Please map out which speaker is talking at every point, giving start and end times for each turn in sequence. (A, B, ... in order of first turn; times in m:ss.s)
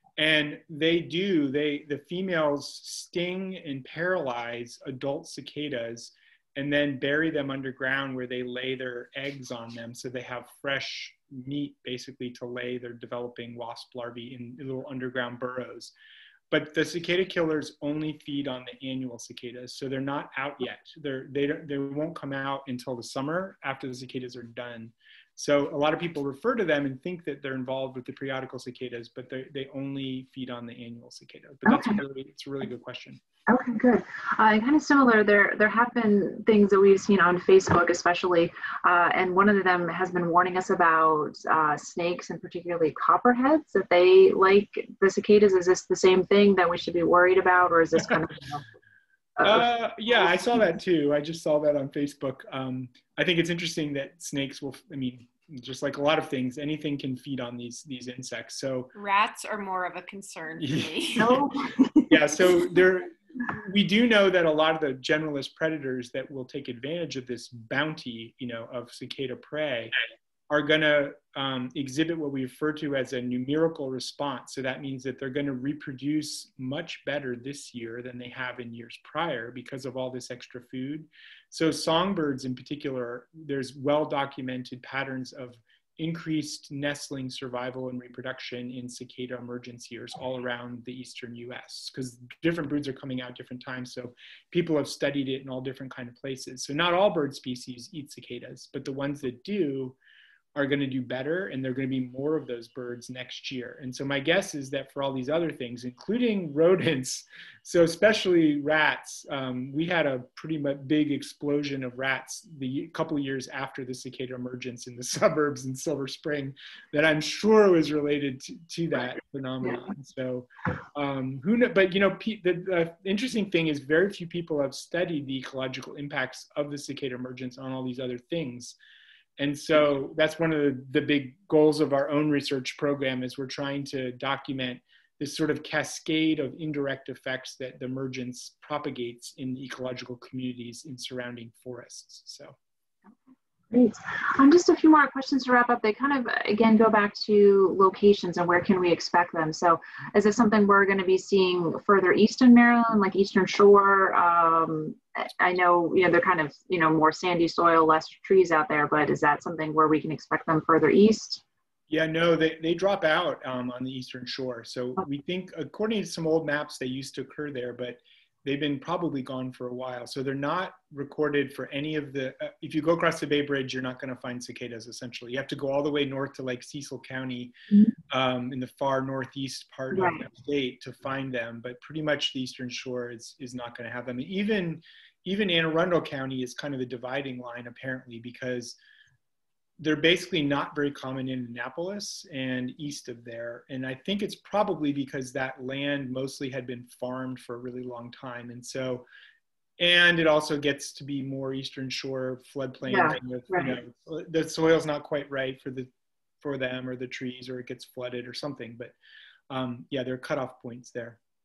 0:00.2-0:15.9 A
0:16.5-0:33.2 A
0:31.6-0:32.0 B
0:33.5-0:48.6 B
0:49.4-0:49.6 B
0:49.4-0:58.9 A
0:58.9-1:01.4 C
1:00.6-1:01.3 A
1:01.2-1:02.3 B
1:02.1-1:09.9 A
1:10.5-1:40.0 A
1:40.5-2:08.8 A
2:09.4-2:22.6 A
2:23.7-2:41.4 B
2:41.9-2:57.5 A
2:58.1-3:08.8 A
2:59.9-3:00.2 B
3:09.8-3:19.0 A
3:19.8-3:25.9 A
3:22.9-3:23.8 B
3:26.4-3:28.9 A
3:29.5-3:31.2 A